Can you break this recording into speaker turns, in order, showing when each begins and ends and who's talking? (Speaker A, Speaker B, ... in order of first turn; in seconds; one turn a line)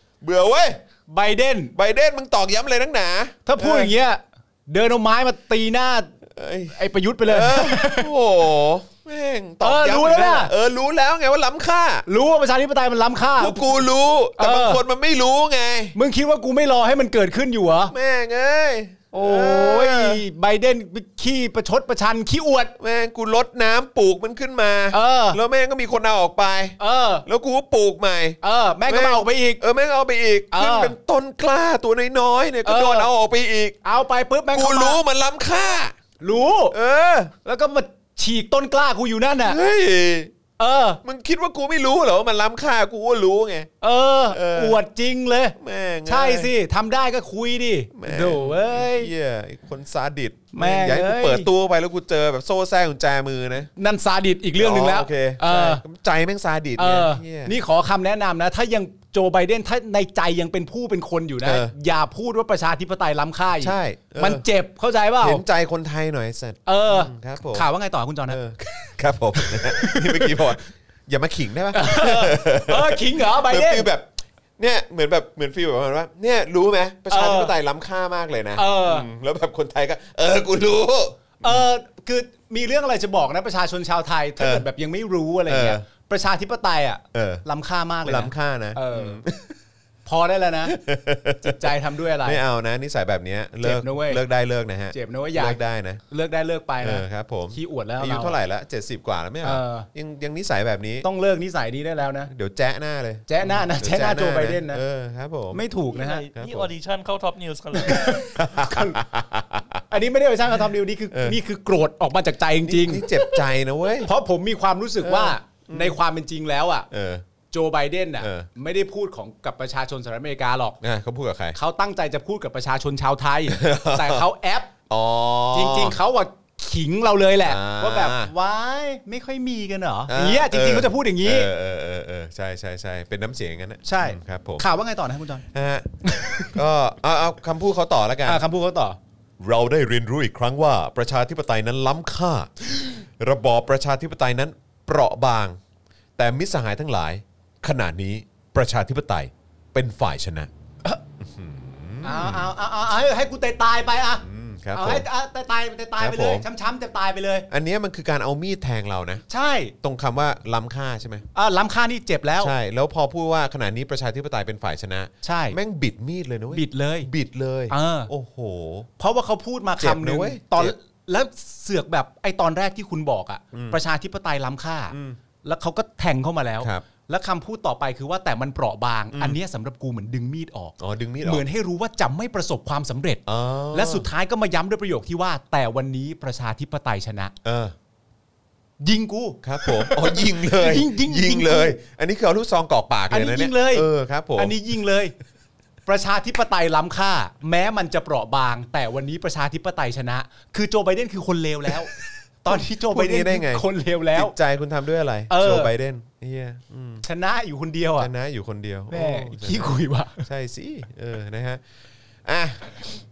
Speaker A: 0.2-0.8
Speaker B: 1.1-1.7
Speaker A: 1.7-3.9
Speaker B: 3.5-6.1
Speaker A: 6.3-12.0
Speaker B: 6.7-8.1
Speaker B: 9.6-10.5
Speaker B: 12.1-13.8
Speaker A: 13.4-15.9
Speaker B: 14.4-14.8
Speaker B: 15.9-17.9
Speaker A: 17.9-20.2
Speaker B: 19.1-22.7
Speaker A: 22.8-33.8
Speaker B: 24.9-25.4
Speaker B: 26.8-27.2
Speaker B: 28.4-29.6
Speaker B: 30.5-30.9
Speaker B: 32.6-33.1
Speaker B: 33.8-35.0
Speaker A: 34.5-36.0
Speaker B: 36.2-36.7
Speaker A: 36.7-37.3
Speaker B: 37.4-39.6
Speaker A: 39.4-40.3
Speaker B: 40.6-41.0
Speaker A: 41.0-43.7
Speaker B: 43.8-49.1
Speaker A: 44.3-44.8
Speaker A: 45.6-46.5
Speaker A: 47.9-53.7
Speaker B: 50.5-51.5
Speaker B: 53.8-55.8
Speaker A: 54.5-57.5
Speaker B: 56.8-65.4
Speaker A: 61.4-61.7
Speaker A: 63.6-64.4
Speaker A: 65.2-67.7
Speaker B: 66.7-68.4
Speaker A: 68.3-81.7
Speaker B: 69.3-70.4
Speaker B: 71.7-73.9
Speaker B: 77.1-77.5
Speaker B: 78.5-79.1
Speaker B: 81.4-89.2
Speaker A: 84.4-84.7
Speaker A: 85.5-85.8
Speaker A: 87.1-87.4
Speaker A: 88.0-89.5
Speaker B: 90.0-90.8
Speaker A: 90.6-96.0
Speaker B: 91.4-92.4
Speaker B: 93.6-94.2
Speaker B: 94.9-98.3
Speaker A: 96.8-101.0
Speaker B: 99.4-99.9
Speaker B: 101.0-102.3
Speaker A: 102.3-105.6
Speaker B: 103.3-104.8
Speaker B: 105.5-106.3
Speaker C: 105.9-108.2
Speaker A: 106.3-106.7
Speaker B: 107.8-109.0
Speaker A: 107.9-109.8
Speaker B: 109.9-113.4
Speaker A: 111.1-111.4
Speaker A: 112.6-114.1
Speaker B: 114.0-116.9
Speaker A: 115.0-116.0
Speaker A: 116.9-117.2
Speaker B: 117.5-120.8
Speaker A: 118.2-118.5
Speaker A: 120.8-121.6
Speaker B: 121.5-124.7
Speaker A: 123.5-124.3
Speaker A: 124.9-126.0
Speaker B: 125.5-131.5
Speaker A: 127.4-128.3
Speaker A: 130.1-134.7
Speaker B: 133.8-135.4
Speaker A: 135.5-138.4
Speaker B: 136.0-136.6
Speaker B: 138.2-139.0
Speaker A: 139.4-145.6
Speaker A: 146.2-150.5
Speaker A: 151.2-152.5
Speaker B: 152.0-157.5
Speaker A: 154.2-155.1
Speaker A: 156.0-156.5
Speaker A: 157.5-159.2
Speaker B: 159.3-159.7
Speaker A: 159.8-161.2
Speaker B: 161.3-162.5
Speaker A: 162.4-168.9
Speaker B: 165.2-165.6
Speaker B: 166.5-167.1
Speaker B: 167.7-168.1
Speaker B: 169.0-187.3
Speaker A: 169.8-170.7
Speaker A: 173.5-173.8
Speaker A: 174.9-175.2
Speaker A: 179.1-179.4
Speaker A: 180.8-181.4
Speaker A: 183.3-184.1
Speaker A: 187.4-187.7
Speaker B: 188.8-191.8
Speaker A: 189.4-194.5
Speaker B: 193.1-195.1
Speaker B: 195.8-204.3
Speaker A: 202.7-207.0
Speaker B: 205.3-205.7
Speaker B: 207.0-208.1
Speaker A: 208.0-211.6
Speaker B: 208.9-210.3
Speaker A: 212.2-212.8